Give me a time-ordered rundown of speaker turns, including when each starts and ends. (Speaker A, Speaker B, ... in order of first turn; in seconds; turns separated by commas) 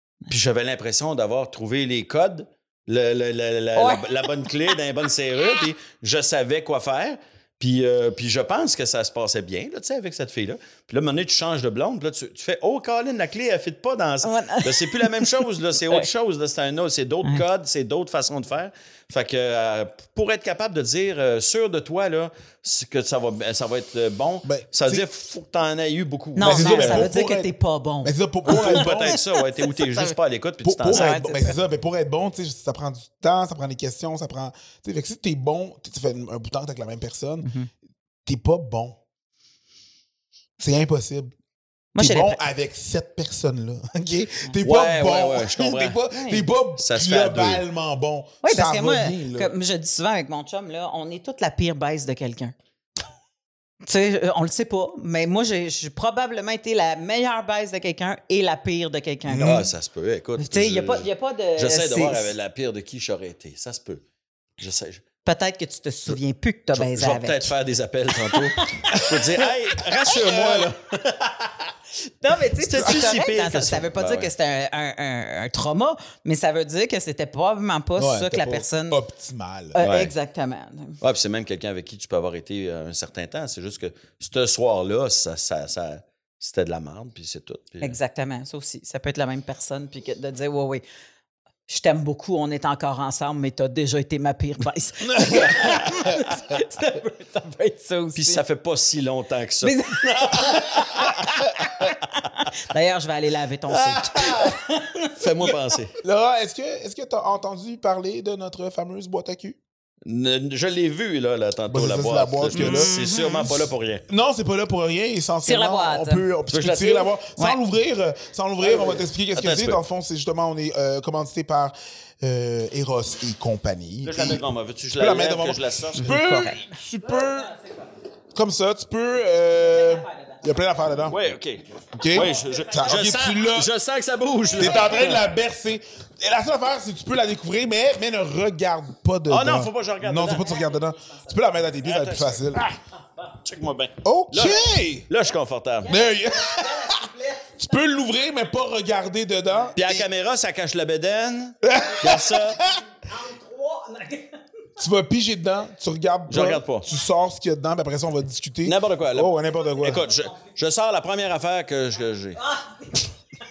Speaker A: 0.3-27.1, Speaker B: 3.8-4.7, Speaker B: 14.2-16.1, Speaker C: 24.4-25.1, Speaker B: 26.4-30.1, Speaker C: 26.4-27.5, Speaker C: 28.0-29.2, Speaker A: 28.5-31.2, Speaker C: 30.6-37.5, Speaker B: 30.9-31.6, Speaker B: 37.4-37.7, Speaker C: 38.3-39.0, Speaker C: 40.6-41.3, Speaker B: 42.0-42.4, Speaker C: 42.0-49.5, Speaker A: 44.6-46.0, Speaker B: 46.1-46.5, Speaker A: 46.8-47.6, Speaker B: 48.4-52.5, Speaker B: 53.8-59.7, Speaker C: 59.3-59.6, Speaker A: 59.4-64.0, Speaker B: 60.4-62.3, Speaker A: 64.6-65.0, Speaker B: 65.2-67.5, Speaker A: 66.7-71.7, Speaker B: 68.3-69.2, Speaker C: 70.1-70.7, Speaker B: 72.2-79.0, Speaker A: 72.6-74.3, Speaker C: 78.0-79.8, Speaker B: 79.8-81.0, Speaker A: 79.8-80.1, Speaker A: 81.0-88.0, Speaker B: 87.8-90.8, Speaker B: 91.7-98.4, Speaker C: 95.2-95.8, Speaker A: 95.3-96.2, Speaker A: 98.2-102.0, Speaker B: 99.6-105.6, Speaker A: 103.7-104.6, Speaker A: 105.2-106.0, Speaker C: 106.0-109.6, Speaker A: 110.1-114.0, Speaker C: 111.7-112.9, Speaker B: 112.5-113.7, Speaker C: 114.1-124.4, Speaker B: 115.5-116.2, Speaker A: 116.5-117.1, Speaker A: 118.6-119.8, Speaker A: 124.0-126.1, Speaker C: 125.0-127.5, Speaker B: 126.0-127.9, Speaker C: 128.3-131.2, Speaker B: 129.6-130.5, Speaker A: 131.1-135.2, Speaker C: 131.9-133.7, Speaker B: 132.1-133.1, Speaker B: 134.3-135.2, Speaker C: 134.6-142.6, Speaker A: 139.3-140.6, Speaker B: 140.2-141.5, Speaker A: 141.8-142.7, Speaker A: 143.4-145.9, Speaker C: 144.0-145.1, Speaker B: 145.8-147.8, Speaker C: 145.9-150.1, Speaker B: 149.5-149.7, Speaker A: 149.8-152.6, Speaker C: 151.6-152.8, Speaker B: 152.6-154.4, Speaker C: 154.8-160.0, Speaker A: 156.3-156.9, Speaker A: 158.7-162.4, Speaker B: 159.5-160.5, Speaker B: 162.4-163.1